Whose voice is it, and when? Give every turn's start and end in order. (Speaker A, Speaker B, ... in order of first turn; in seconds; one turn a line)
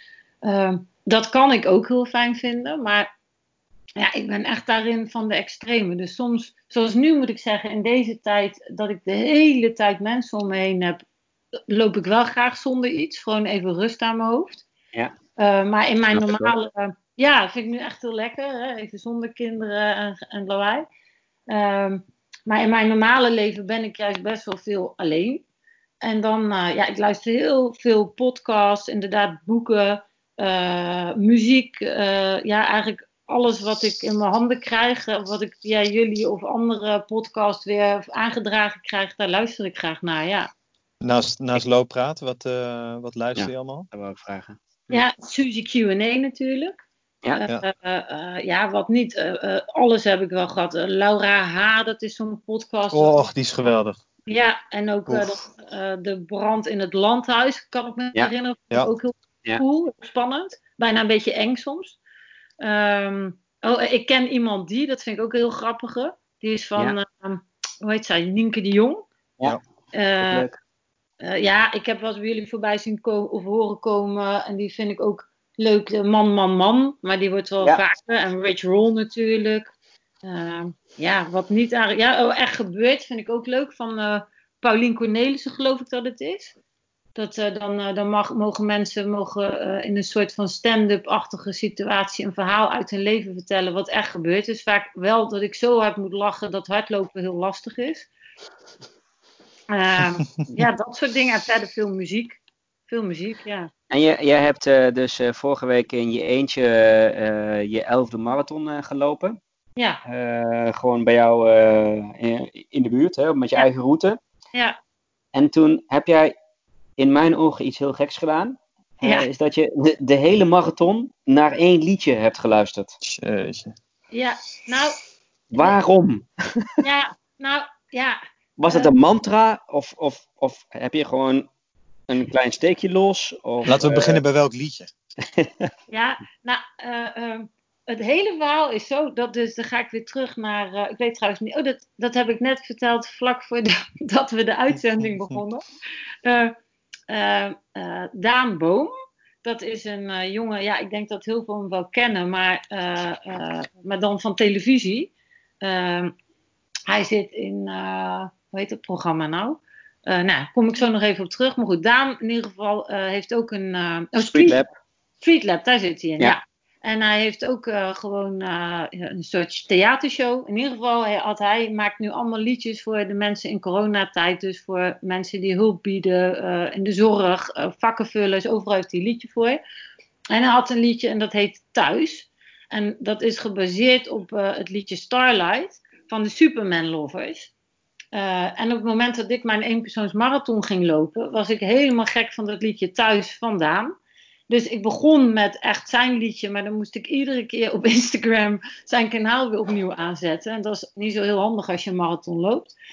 Speaker A: 0.4-3.1
Speaker A: 4.0-11.0
Speaker A: 11.7-14.6
Speaker A: 15.4-20.9
Speaker B: 16.1-16.5
Speaker A: 21.5-25.4
Speaker A: 26.0-40.5
Speaker C: 41.0-43.9
Speaker B: 43.4-45.0
Speaker A: 44.9-46.8
Speaker A: 47.3-53.3
Speaker C: 52.9-54.0
Speaker A: 54.3-62.0
Speaker C: 55.1-55.4
Speaker A: 62.6-69.0
Speaker A: 69.9-70.5
Speaker B: 70.2-70.6
Speaker A: 71.2-79.7
Speaker A: 80.2-86.5
Speaker A: 87.1-98.1
Speaker A: 99.7-103.7
Speaker B: 103.9-109.4
Speaker A: 109.8-110.0
Speaker B: 110.0-114.2
Speaker B: 115.3-116.3
Speaker B: 117.0-122.9
Speaker C: 123.0-123.8
Speaker A: 124.1-125.0
Speaker B: 125.5-126.7
Speaker A: 126.8-128.9
Speaker B: 128.6-131.5
Speaker B: 132.1-134.2
Speaker C: 133.7-134.9
Speaker B: 135.2-135.7
Speaker A: 135.9-145.6
Speaker A: 146.2-146.5
Speaker A: 147.1-148.9
Speaker A: 149.4-156.1
Speaker A: 156.9-164.7
Speaker B: 164.3-164.7
Speaker A: 165.2-179.6
Speaker A: 180.3-187.5
Speaker A: 188.1-193.9
Speaker A: 194.5-202.7